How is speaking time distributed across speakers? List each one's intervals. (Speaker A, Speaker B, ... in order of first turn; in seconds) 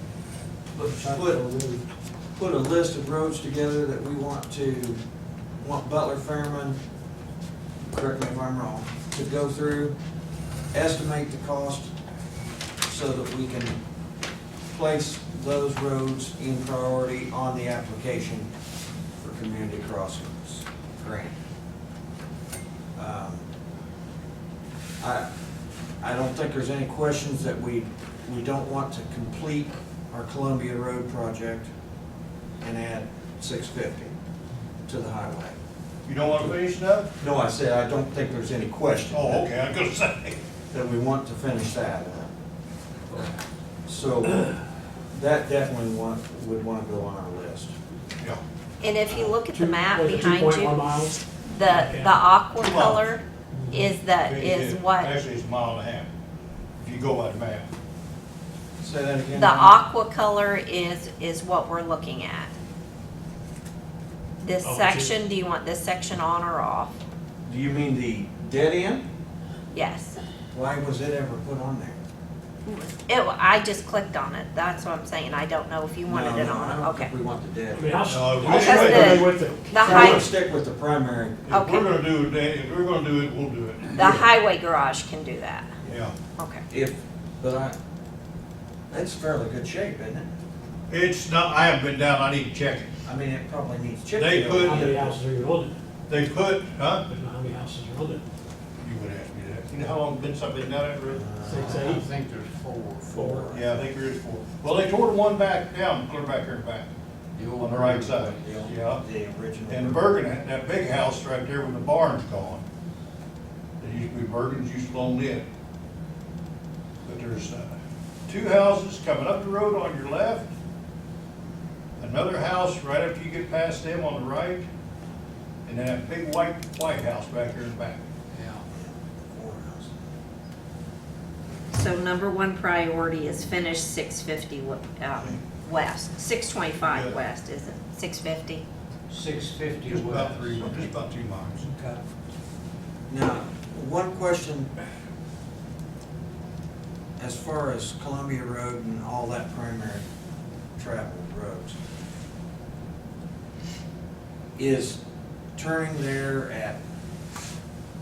Speaker A: 0.7-1.4, 2.4-5.0, 5.6-6.8, 7.8-9.9, 10.7-11.9, 12.8-13.8, 14.7-18.5, 19.2-21.3, 22.9-23.4, 25.0-25.3, 26.0-31.7, 32.6-34.1, 34.9-35.5, 37.2-39.5, 40.7-42.3, 43.9-44.5, 45.1-47.7, 58.8-59.7, 67.4-69.0, 70.5-72.0, 76.1-78.9, 79.8-81.5, 85.8-86.1, 86.7-87.8, 88.9-90.3, 93.0-95.1, 101.1-101.8, 108.9-110.0, 128.7-130.0, 143.1-144.7, 147.2-150.0, 150.8-151.7, 154.6-155.0, 155.6-156.8
Speaker B: 0.9-1.8, 49.2-52.2, 53.5-53.9, 64.6-65.1, 77.7-80.2, 94.6-95.7, 97.0-98.2, 101.4-102.0, 103.1-103.5
Speaker C: 1.0-1.5, 101.6-103.7, 107.3-108.7, 128.3-128.6, 139.1-140.7
Speaker D: 36.0-37.1, 39.1-40.4, 52.6-53.1, 54.2-56.1, 56.8-57.7, 78.1-79.3, 81.5-84.1, 85.9-86.1, 90.9-92.9, 94.2-94.9, 96.1-97.0, 98.8-101.3, 103.5-106.9, 107.5-109.0, 109.7-112.6, 113.8-115.4, 117.0-117.7, 118.3-120.5, 122.0-124.6, 125.7-128.0, 136.8-137.2, 139.9-141.7
Speaker E: 48.8-50.8, 51.5-55.1, 59.3-62.5, 64.4-66.9, 69.7-70.2, 72.7-77.1, 78.4-80.2, 81.5-81.9, 83.9-85.7, 86.4-86.6, 131.7-138.6